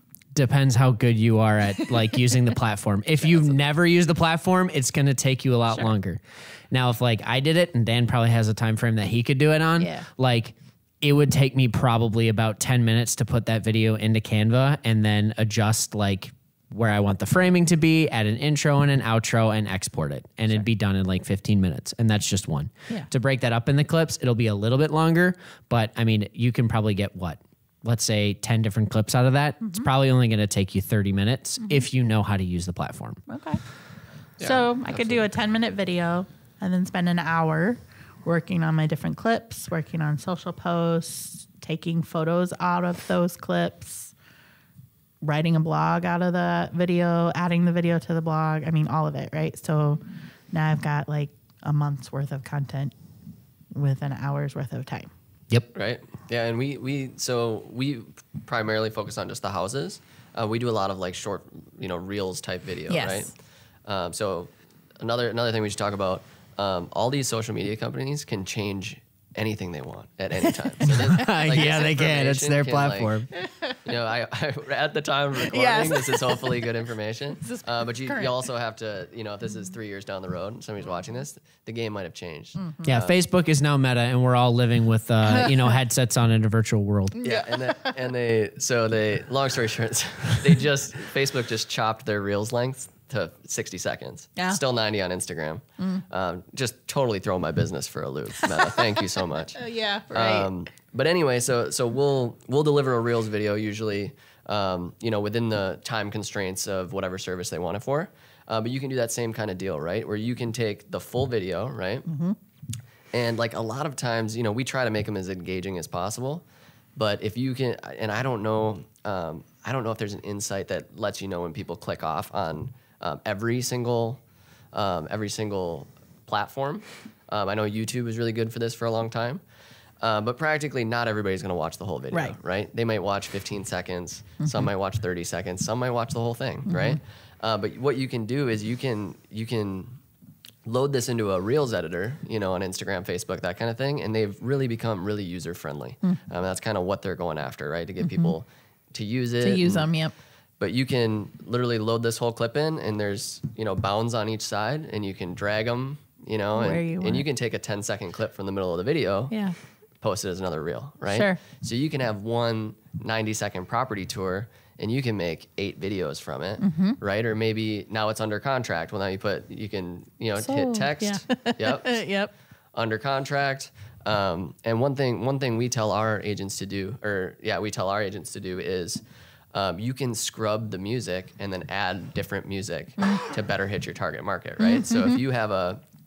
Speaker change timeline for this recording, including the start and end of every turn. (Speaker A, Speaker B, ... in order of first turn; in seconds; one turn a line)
Speaker A: 0.3-33.2
Speaker B: 9.8-10.1
Speaker B: 29.6-29.9
Speaker B: 33.3-33.6
Speaker C: 34.4-35.2
Speaker B: 34.4-44.1
Speaker B: 45.2-50.0
Speaker B: 50.5-52.9
Speaker B: 53.7-55.1
Speaker C: 55.7-63.3
Speaker B: 62.9-63.3
Speaker C: 63.8-73.1
Speaker B: 70.8-71.3
Speaker A: 71.0-73.3
Speaker B: 73.3-73.8
Speaker C: 73.8-83.1
Speaker B: 75.4-76.6
Speaker B: 77.4-78.3
Speaker B: 82.5-82.9
Speaker A: 82.8-87.2
Speaker B: 85.2-85.7
Speaker B: 87.2-88.0
Speaker C: 87.2-99.6
Speaker B: 99.5-100.5
Speaker C: 100.1-112.0
Speaker B: 112.0-112.3
Speaker C: 113.1-116.4
Speaker C: 117.0-124.2
Speaker C: 124.7-129.4
Speaker C: 130.0-140.0
Speaker B: 136.7-137.0
Speaker C: 140.6-149.9
Speaker B: 148.0-148.3
Speaker B: 149.4-150.1
Speaker C: 150.6-159.3
Speaker B: 156.5-157.2
Speaker B: 159.3-159.6
Speaker C: 160.0-172.0
Speaker B: 161.1-161.4
Speaker B: 166.6-167.0
Speaker B: 170.4-172.3
Speaker C: 172.7-179.0
Speaker C: 179.5-185.8
Speaker B: 184.6-185.2